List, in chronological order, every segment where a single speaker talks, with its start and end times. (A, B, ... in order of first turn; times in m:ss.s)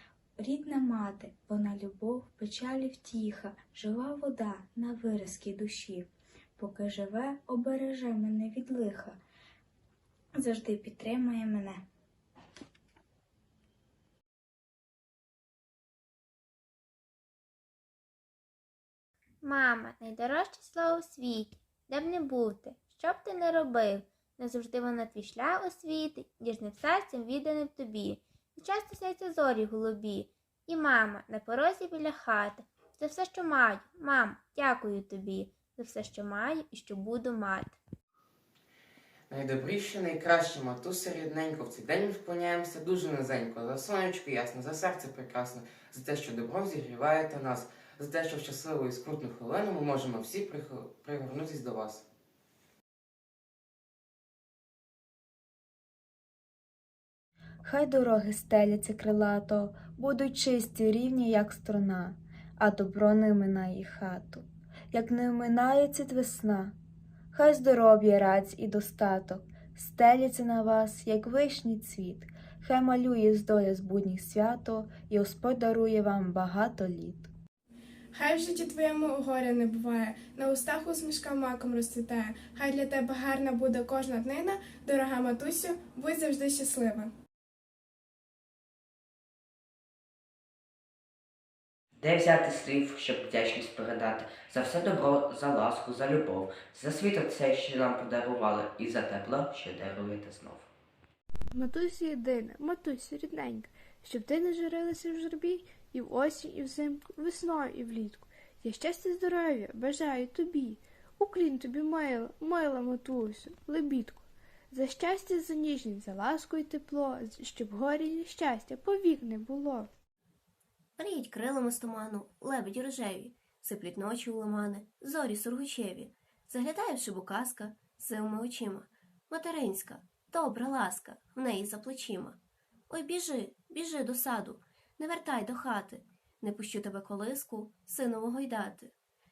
0:00.4-0:09.2 A
0:10.4-0:11.8 A
0:19.4-0:37.8 B
0:39.3-0:52.0 C
0:57.6-1:06.8 D
1:07.3-1:17.3 D
1:18.1-1:27.1 E
1:32.0-1:40.7 F
1:41.5-1:59.9 G
2:01.0-2:12.4 H
2:12.9-2:18.9 H